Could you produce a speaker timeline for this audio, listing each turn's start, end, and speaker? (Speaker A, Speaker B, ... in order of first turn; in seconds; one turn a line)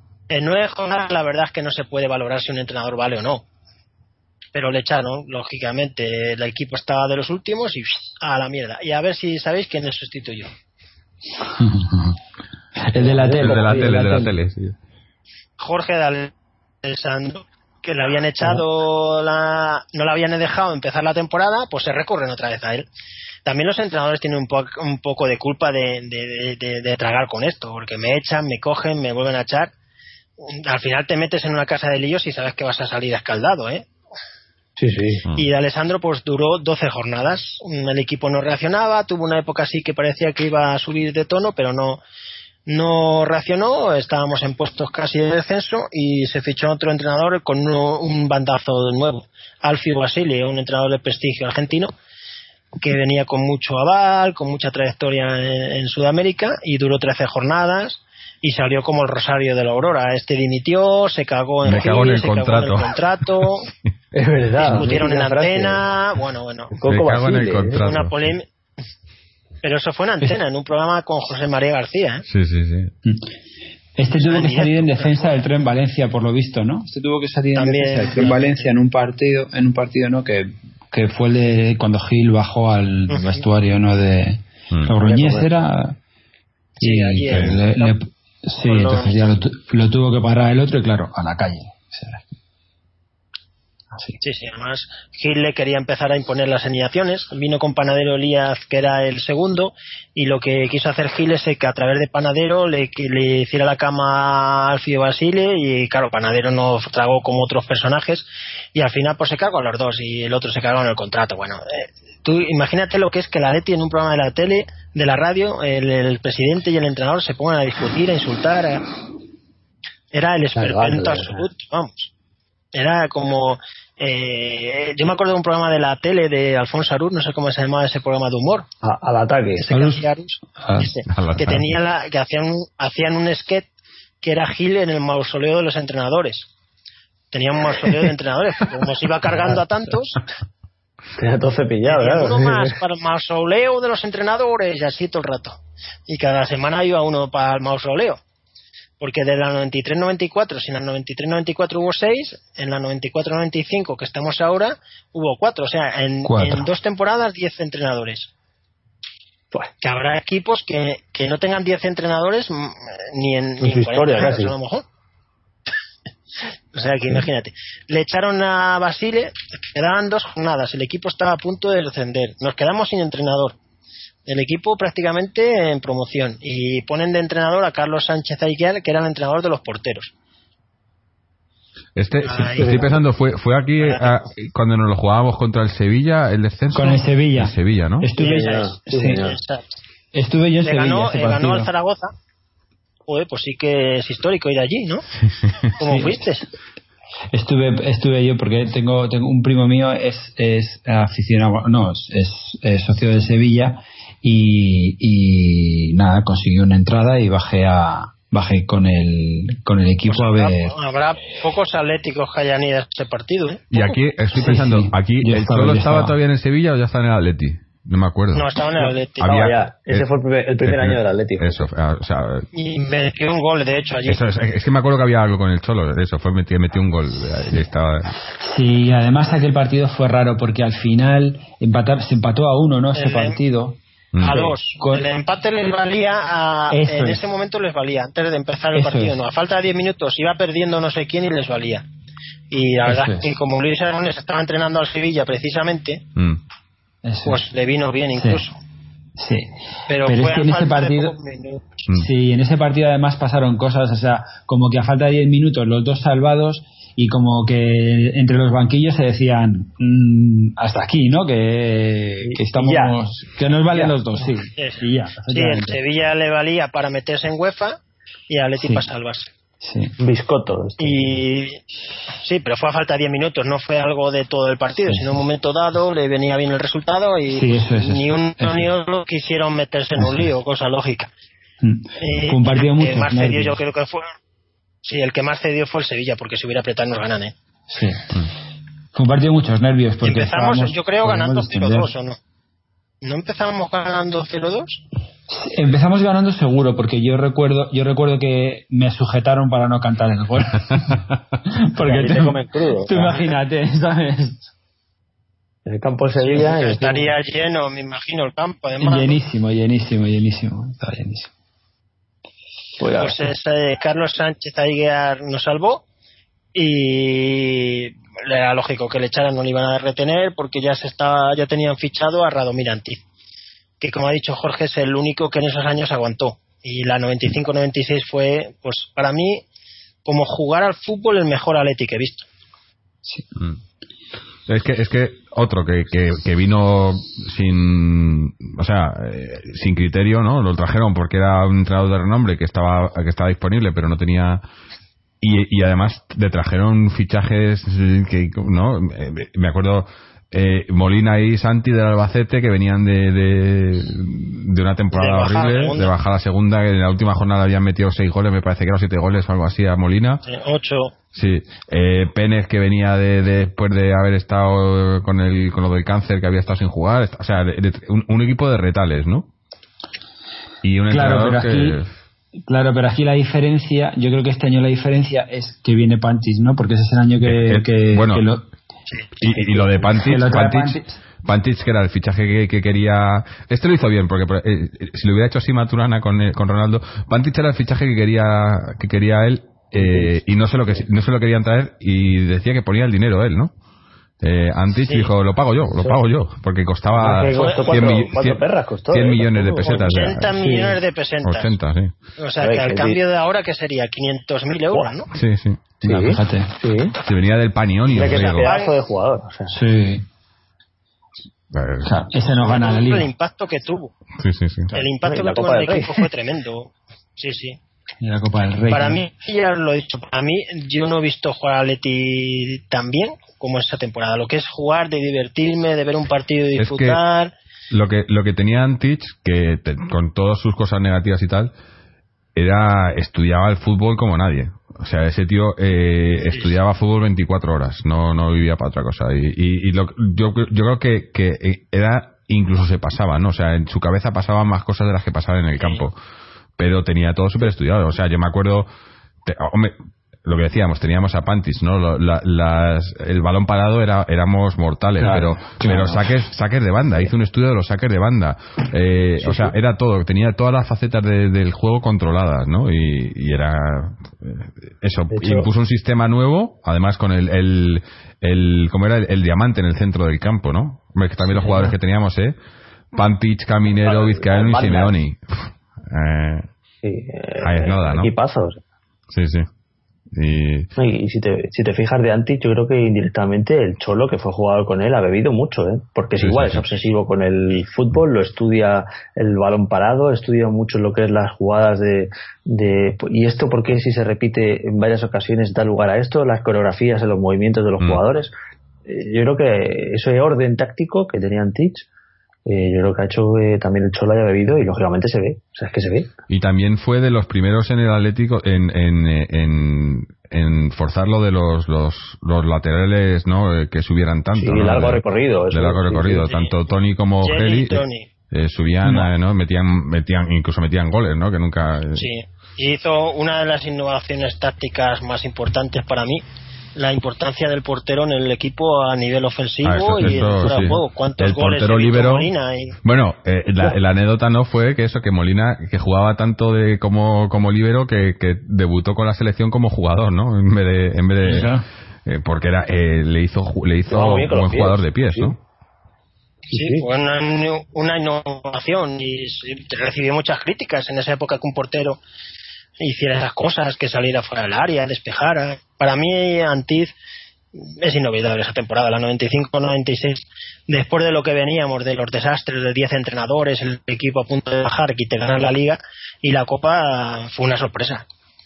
Speaker A: 0.3-3.4
Speaker A: 4.5-10.5
Speaker B: 11.4-12.2
Speaker B: 12.8-14.3
Speaker C: 12.9-14.2
Speaker D: 13.4-14.8
Speaker A: 15.6-16.3
Speaker A: 16.8-22.9
Speaker A: 23.4-29.7
Speaker A: 30.5-33.9
Speaker C: 34.8-35.2
Speaker A: 35.4-42.0
Speaker A: 42.7-51.9
Speaker A: 52.8-63.7
Speaker D: 61.6-63.5
Speaker C: 64.1-65.8
Speaker A: 64.6-66.8
Speaker C: 66.7-67.8
Speaker D: 66.9-68.3
Speaker A: 67.8-68.5
Speaker A: 69.6-72.2
Speaker D: 72.3-72.9
Speaker B: 74.0-86.0
Speaker A: 74.2-75.3
Speaker A: 77.5-78.7
Speaker A: 83.1-83.5
Speaker C: 85.0-85.5
Speaker A: 86.8-88.0
Speaker B: 86.8-92.2
Speaker D: 87.3-87.6
Speaker A: 88.6-89.2
Speaker B: 93.9-94.2
Speaker A: 94.2-118.9
Speaker A: 120.1-122.1
Speaker C: 120.6-121.5
Speaker A: 122.7-128.7
Speaker C: 128.8-129.7
Speaker A: 129.6-133.7
Speaker B: 129.7-130.1
Speaker B: 130.6-130.9
Speaker D: 131.1-131.6
Speaker A: 134.2-136.5
Speaker A: 137.3-140.2
Speaker C: 141.2-142.8
Speaker A: 141.8-148.2
Speaker A: 149.0-158.3
Speaker B: 156.2-156.7
Speaker A: 159.8-164.8
Speaker C: 163.6-164.6
Speaker A: 166.7-173.6
Speaker A: 174.3-180.1
Speaker D: 182.0-188.1
Speaker A: 182.2-182.9
Speaker C: 182.6-183.0
Speaker A: 183.8-184.2
Speaker B: 186.7-189.3
Speaker A: 188.2-189.7
Speaker C: 188.2-189.4
Speaker B: 190.1-191.7
Speaker A: 190.6-192.1
Speaker A: 193.1-195.1
Speaker A: 195.8-196.5
Speaker B: 195.8-196.2
Speaker B: 197.3-210.8
Speaker A: 210.1-214.0
Speaker D: 213.7-218.5
Speaker B: 214.3-216.2
Speaker A: 218.3-219.2
Speaker C: 218.8-221.7
Speaker D: 219.2-220.1
Speaker D: 220.6-222.5
Speaker A: 222.5-224.2
Speaker D: 224.1-228.2
Speaker B: 228.3-235.1
Speaker A: 232.9-233.4
Speaker D: 234.1-234.5
Speaker A: 234.2-241.9
Speaker B: 236.7-237.3
Speaker B: 238.8-239.2
Speaker A: 242.5-246.0
Speaker B: 242.9-243.3
Speaker B: 247.0-247.4
Speaker A: 247.3-248.6
Speaker B: 248.2-248.4
Speaker B: 249.2-249.5
Speaker A: 249.9-251.8
Speaker B: 250.0-251.2
Speaker B: 252.0-265.8
Speaker C: 262.2-263.0
Speaker C: 263.7-264.0
Speaker A: 264.6-269.3
Speaker B: 268.6-268.9
Speaker B: 269.6-269.9
Speaker C: 270.0-271.2
Speaker A: 270.8-271.6
Speaker A: 272.2-281.1
Speaker B: 274.9-275.2
Speaker B: 277.3-278.7
Speaker B: 280.0-280.3
Speaker B: 281.6-283.6
Speaker A: 282.0-284.1
Speaker A: 284.8-287.3
Speaker B: 287.7-288.1
Speaker B: 288.9-291.9
Speaker A: 290.0-292.2
Speaker A: 293.0-294.8
Speaker B: 295.3-304.4
Speaker C: 301.8-303.3
Speaker C: 305.7-307.1
Speaker A: 306.2-309.2
Speaker B: 308.8-311.3
Speaker C: 312.8-313.2
Speaker A: 312.9-315.8
Speaker A: 316.5-323.0
Speaker A: 323.8-329.4
Speaker A: 330.1-332.3
Speaker D: 334.5-344.4
Speaker D: 345.2-360.2
Speaker A: 354.9-355.9
Speaker A: 360.2-360.9
Speaker D: 361.1-369.3
Speaker D: 370.6-371.9
Speaker B: 370.9-371.8
Speaker B: 372.5-378.4
Speaker D: 377.2-378.2
Speaker D: 379.2-393.5
Speaker B: 379.6-381.0
Speaker C: 389.8-390.1
Speaker D: 394.2-400.4
Speaker C: 395.7-396.0
Speaker C: 396.9-400.8
Speaker A: 397.4-397.7
Speaker A: 399.8-401.5
Speaker D: 401.2-401.9
Speaker A: 402.2-405.1
Speaker C: 402.4-403.0
Speaker D: 405.1-405.6
Speaker B: 405.8-406.6
Speaker C: 405.8-407.0
Speaker D: 407.0-408.5
Speaker C: 407.9-409.6
Speaker A: 408.2-408.7
Speaker B: 409.5-410.1
Speaker D: 411.5-411.9
Speaker B: 411.8-413.1
Speaker A: 412.3-413.9
Speaker D: 414.2-414.7
Speaker A: 414.7-417.6
Speaker C: 415.0-416.1
Speaker B: 418.0-419.0
Speaker A: 418.7-427.3
Speaker D: 426.6-427.0
Speaker D: 427.7-431.5
Speaker D: 432.4-445.9
Speaker A: 445.6-445.9
Speaker D: 446.6-448.7
Speaker D: 449.2-472.4
Speaker B: 455.0-456.1
Speaker C: 465.1-465.5
Speaker D: 472.9-476.5
Speaker C: 473.8-475.0
Speaker C: 476.8-478.6
Speaker D: 477.4-478.1
Speaker D: 479.1-479.5
Speaker D: 480.1-480.7
Speaker C: 480.8-498.3
Speaker D: 486.2-486.6
Speaker C: 498.9-501.9
Speaker C: 502.4-506.1
Speaker D: 506.3-522.1
Speaker C: 514.4-516.3
Speaker A: 516.2-516.5
Speaker A: 517.2-518.1
Speaker B: 518.8-519.1
Speaker A: 522.0-526.2
Speaker A: 526.8-532.8
Speaker D: 529.6-532.3
Speaker C: 530.0-530.8
Speaker D: 532.8-545.4
Speaker B: 541.2-541.7
Speaker C: 543.9-545.4
Speaker A: 546.5-552.0
Speaker C: 546.5-546.9
Speaker A: 552.8-556.9
Speaker A: 557.6-568.0